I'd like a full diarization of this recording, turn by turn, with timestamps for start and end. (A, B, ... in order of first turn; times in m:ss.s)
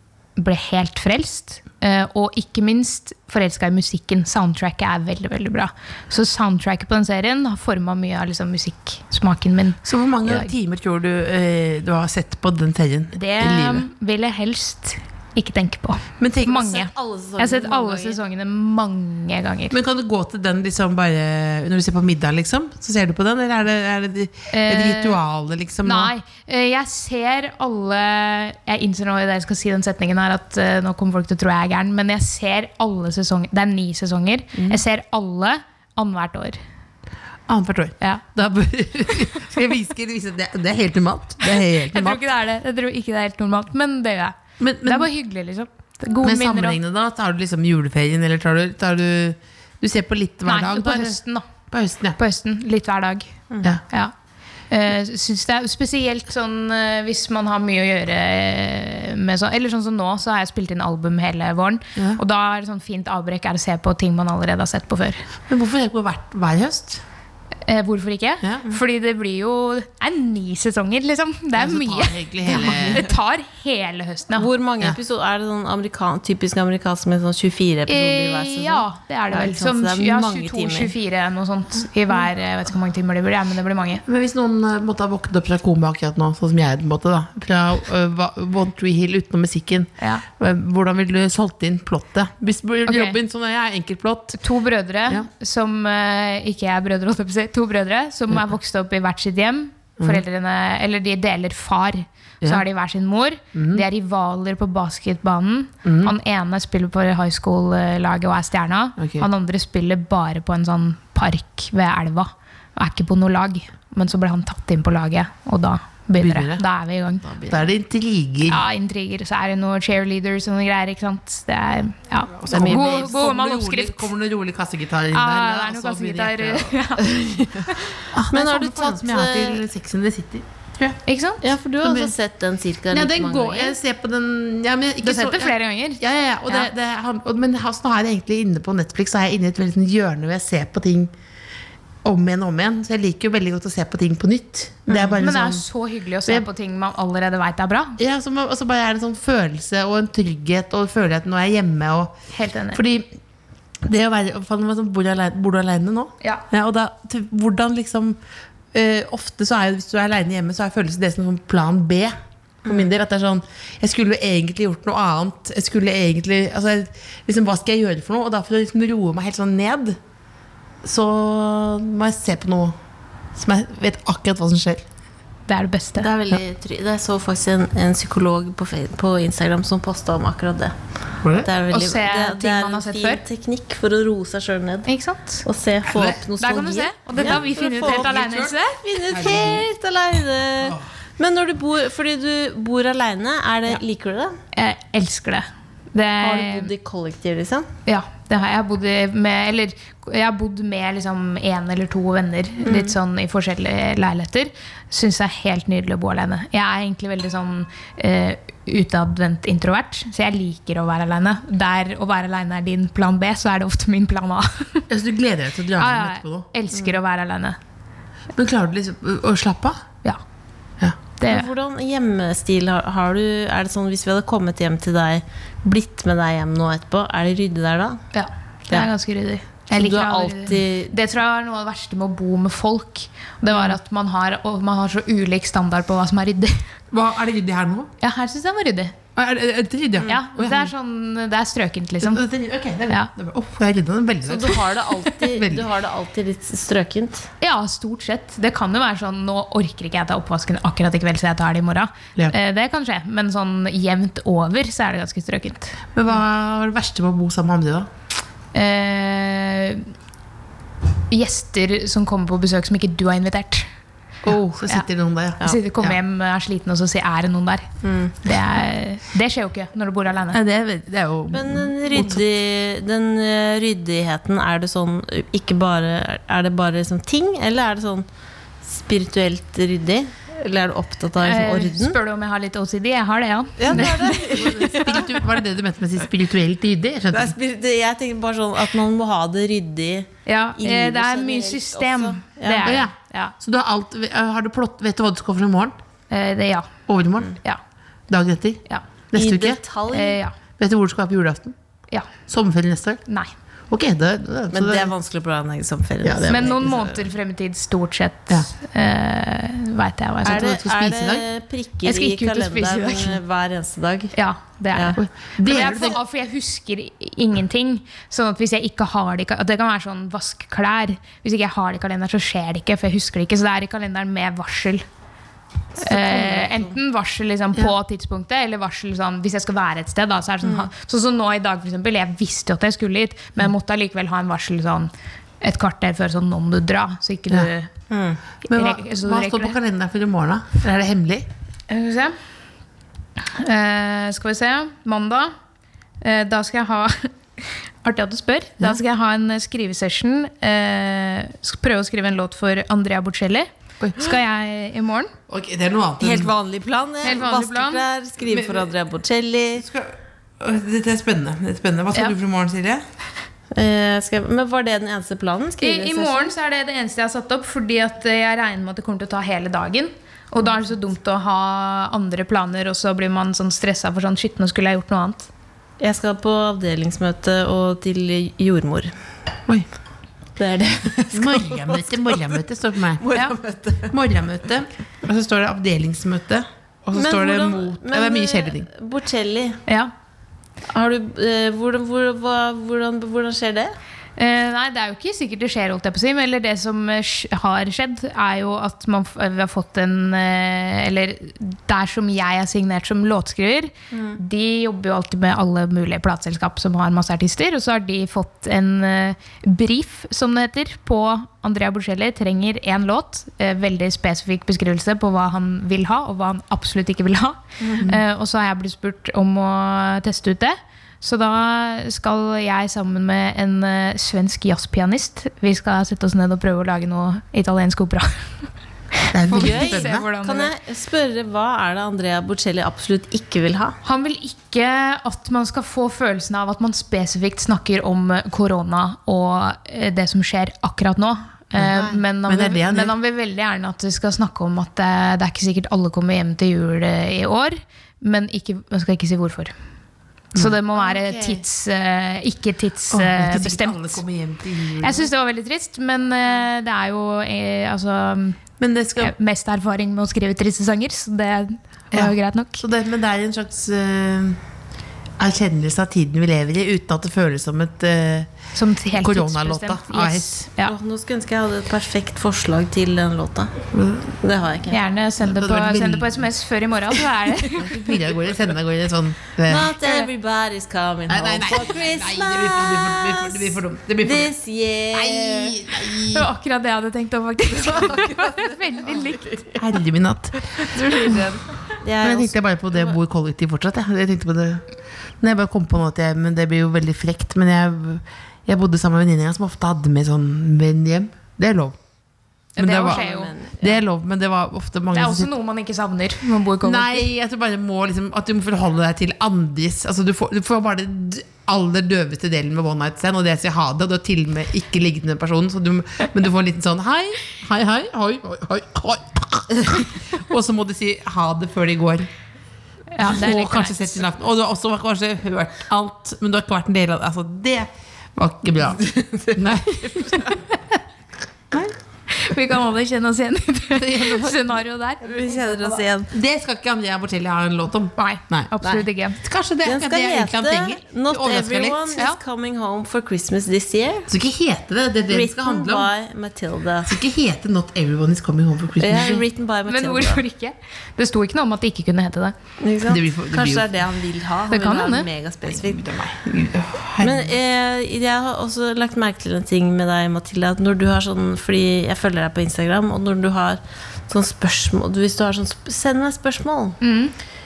0:00.4-0:10.5 A
0:09.8-0:13.9 B
0:13.1-0:19.8 A
0:16.2-0:16.6 B
0:16.5-0:18.2 C
0:19.7-0:26.1 B
0:24.5-0:25.2 A
0:25.8-0:36.6 A
0:37.5-0:42.2 B
0:41.8-0:46.8 A
0:44.6-0:45.1 B
0:46.2-0:51.2 B
0:50.4-0:51.4 A
0:51.7-0:52.2 B
0:52.2-0:54.1 A
0:54.7-1:05.3 A
1:05.5-1:07.0 B
1:07.6-1:14.5 A
1:11.5-1:13.0 B
1:14.3-1:20.9 C
1:17.9-1:24.0 A
1:24.0-1:34.4 B
1:30.0-1:30.2 A
1:32.9-1:33.2 A
1:34.4-1:57.3 A
1:43.5-1:43.8 B
1:45.8-1:46.1 B
1:49.0-1:49.3 B
1:56.2-1:56.6 B
1:57.5-1:58.6 B
1:58.5-2:04.1 A
2:02.4-2:06.8 B
2:02.5-2:03.0 C
2:05.1-2:07.7 A
2:07.1-2:07.7 C
2:08.1-2:11.0 B
2:08.3-2:09.6 C
2:11.0-2:11.4 A
2:11.4-2:13.8 C
2:11.8-2:12.1 B
2:12.9-2:21.1 B
2:15.0-2:16.7 A
2:22.0-2:25.6 B
2:25.1-2:28.0 A
2:28.0-2:32.1 B
2:32.3-2:32.8 A
2:32.7-2:33.1 B
2:33.8-2:38.2 B
2:38.7-2:50.0 B
2:50.8-2:52.7 B
2:53.3-2:54.8 B
2:55.5-2:56.1 A
2:56.0-3:00.8 C
3:01.2-3:01.5 B
3:01.3-3:04.9 C
3:01.7-3:03.2 A
3:04.9-3:05.4 A
3:05.4-3:08.1 C
3:05.9-3:06.2 B
3:06.4-3:08.8 A
3:07.1-3:09.7 B
3:08.6-3:14.4 C
3:14.5-3:16.7 A
3:16.2-3:17.7 C
3:17.8-3:34.8 A
3:22.6-3:22.9 C
3:34.9-3:36.5 B
3:35.8-3:37.6 A
3:38.3-3:39.8 B
3:41.2-3:41.5 A
3:41.2-3:48.0 C
3:48.1-3:56.7 A
3:49.7-3:50.9 C
3:56.9-3:57.9 B
3:58.0-3:59.0 A
3:59.2-4:00.7 B
4:00.0-4:02.2 A
4:02.0-4:05.6 B
4:04.2-4:07.3 C
4:07.4-4:15.8 A
4:15.9-4:17.9 B
4:18.5-4:19.9 A
4:21.1-4:23.7 A
4:24.2-4:26.0 B
4:25.4-4:30.4 A
4:27.8-4:28.2 C
4:30.3-4:32.2 B
4:31.3-4:38.0 C
4:38.6-4:42.0 C
4:41.2-4:44.5 A
4:43.6-4:45.2 C
4:43.7-4:47.3 B
4:47.1-4:52.8 C
4:50.2-4:53.3 A
4:52.6-4:55.8 B
4:56.1-4:56.8 A
4:56.9-4:57.4 B
4:58.1-4:59.6 B
4:59.1-5:00.2 C
4:59.9-5:00.3 A
5:00.6-5:01.6 B
5:02.3-5:03.0 B
5:03.1-5:03.3 A
5:03.7-5:04.9 B
5:04.5-5:07.0 C
5:06.0-5:06.7 B
5:06.3-5:10.6 A
5:10.2-5:11.2 B
5:10.2-5:14.1 C
5:11.8-5:13.2 A
5:14.1-5:24.8 A
5:14.7-5:15.0 C
5:15.0-5:16.0 B
5:25.8-5:37.7 A
5:25.8-5:26.7 C
5:30.4-5:30.7 C
5:37.9-5:38.2 C
5:38.4-5:39.6 A
5:38.5-5:41.3 B
5:41.7-5:42.2 A
5:43.2-5:45.3 A
5:46.0-5:55.1 A
5:53.8-5:54.1 B
5:55.3-5:56.3 B
5:56.0-5:59.6 C
5:57.0-5:57.8 A
5:58.2-5:58.7 B
5:59.6-6:02.8 B
6:03.5-6:06.3 C
6:05.6-6:15.3 A
6:15.8-6:18.9 C
6:20.4-6:22.4 C
6:21.1-6:23.0 B
6:23.0-6:23.9 C
6:23.9-6:28.7 B
6:26.9-6:29.6 C
6:29.7-6:29.9 A
6:30.7-6:33.7 C
6:34.2-7:08.5 A
6:43.9-6:44.2 C
7:09.0-7:10.5 A
7:09.1-7:10.0 B
7:09.3-7:13.8 C
7:13.8-7:29.5 A
7:21.6-7:22.9 B
7:30.3-7:34.0 A
7:30.7-7:31.4 C
7:32.9-7:35.1 B
7:34.8-7:38.4 A
7:38.6-7:39.1 B
7:39.0-7:42.6 A
7:41.9-7:44.4 B
7:45.2-7:48.3 B
7:48.5-7:50.7 A
7:48.9-7:50.4 B
7:50.6-7:54.8 C
7:53.7-7:54.1 B
7:54.7-7:57.8 A
7:55.2-7:56.2 B
7:57.6-7:59.7 B
7:59.4-8:05.6 C
7:59.8-8:00.1 A
8:01.1-8:04.3 B
8:04.9-8:06.3 B
8:06.0-8:09.5 A
8:07.5-8:09.4 C
8:09.6-8:10.6 B
8:10.5-8:13.0 C
8:12.0-8:14.6 B
8:15.2-8:21.8 B
8:22.6-8:23.0 B
8:22.6-8:23.3 A
8:22.6-8:23.7 C
8:23.6-8:25.3 B
8:24.9-8:27.0 A
8:26.6-8:42.1 B
8:42.9-8:44.0 A
8:43.0-8:50.4 B
8:48.9-8:50.3 C
8:52.1-8:55.8 A
8:53.8-8:54.5 B
8:55.0-8:56.1 C
8:56.1-8:58.5 B
8:58.0-8:59.2 A
8:59.2-9:01.9 B
8:59.6-9:04.1 C
9:04.1-9:05.9 B
9:05.1-9:06.9 C
9:06.9-9:09.3 B
9:08.8-9:10.2 C
9:09.7-9:12.3 A
9:12.6-9:15.8 C
9:12.8-9:13.7 B
9:14.5-9:15.1 A
9:15.4-9:17.3 B
9:17.0-9:26.8 C
9:26.8-9:27.1 A